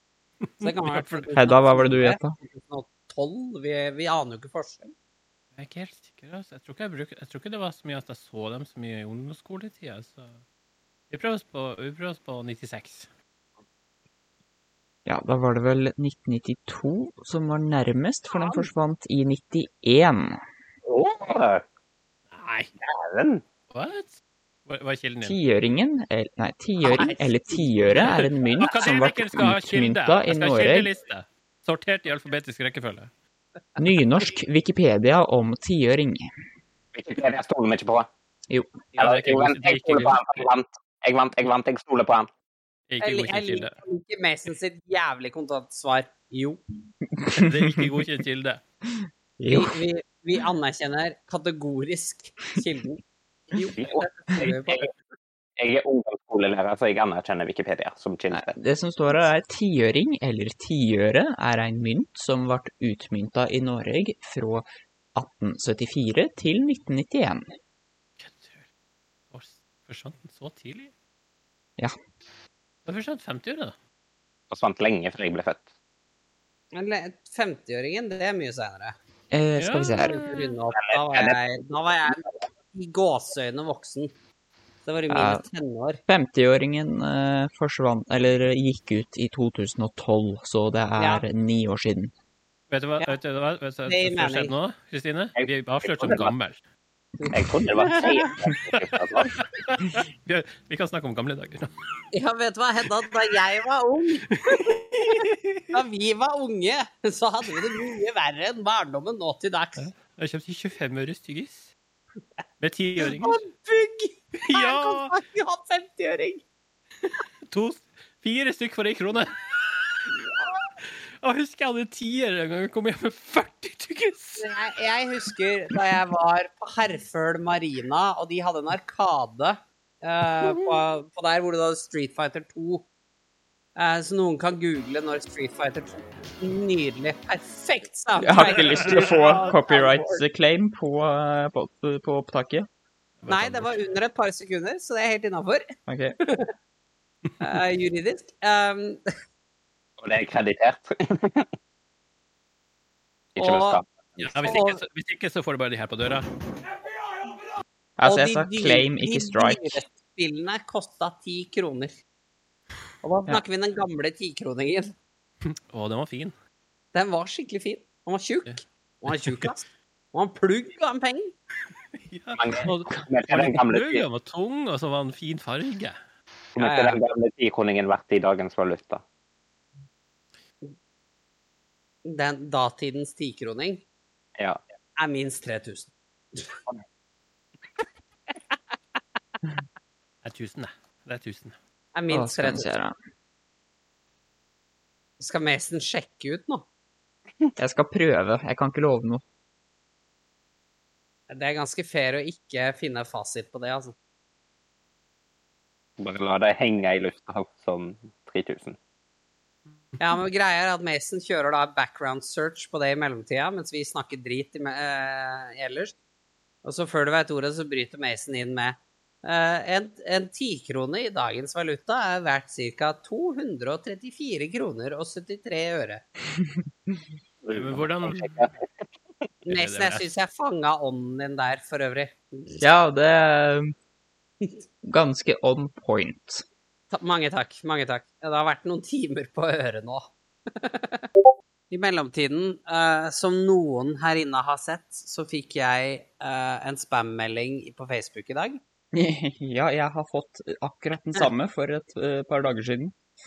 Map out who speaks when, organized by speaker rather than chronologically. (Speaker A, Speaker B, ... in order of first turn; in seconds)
Speaker A: 0.4-1.3, 5.5-10.4, 11.1-13.1, 22.3-22.7, 23.7-25.4, 27.9-33.1, 39.0-40.5, 42.9-43.8, 47.3-48.6, 68.2-68.7, 69.3-70.9, 72.8-73.7, 79.6-80.6, 92.7-96.6, 99.3-101.7, 104.3-105.7, 109.8-111.7, 112.6-113.4, 114.4-115.2, 117.5-120.0, 121.2-124.5, 143.2-143.8, 154.3-156.3, 165.4-166.3, 168.5-169.5, 172.0-176.0, 190.2-191.6, 227.5-228.5, 229.5-230.1
Speaker B: 0.6-4.9, 18.3-18.7, 26.8-27.7, 43.0-46.6, 49.5-54.9, 76.7-78.9, 80.1-84.1, 84.8-86.0, 91.0-91.2, 93.8-94.5, 97.2-98.3, 102.1-109.9, 113.0-116.4, 120.1-120.6, 124.4-132.8, 133.8-140.2, 143.3-145.7, 146.2-146.5, 147.4-149.0, 153.4-154.8, 158.0-161.9, 163.0-164.9, 166.9-171.3, 176.6-177.0, 182.0-183.8, 185.0-186.5, 191.9-192.7, 195.2-196.7, 201.3-203.9, 210.0-215.9, 216.6-226.0, 229.5-232.6, 236.9-241.1, 241.7-248.6
Speaker C: 1.3-2.4, 15.1-20.4, 25.2-30.9, 33.8-36.3, 38.5-38.8, 47.1-47.8, 49.4-49.7, 58.3-67.5, 79.3-80.2, 85.1-85.4, 86.1-92.1, 138.2-142.7, 145.9-146.2, 158.0-159.8, 192.1-192.9, 197.6-199.2, 232.6-233.7, 234.8-236.4, 248.9-252.9
Speaker D: 20.8-21.6, 22.8-23.4, 36.9-38.1, 39.0-42.3, 53.6-54.9, 55.6-58.5, 74.5-75.7, 80.7-81.4, 95.3-96.3, 97.3-99.3, 150.0-151.5, 153.3-154.5, 172.3-174.1, 176.6-179.0, 206.0-208.8, 227.4-228.6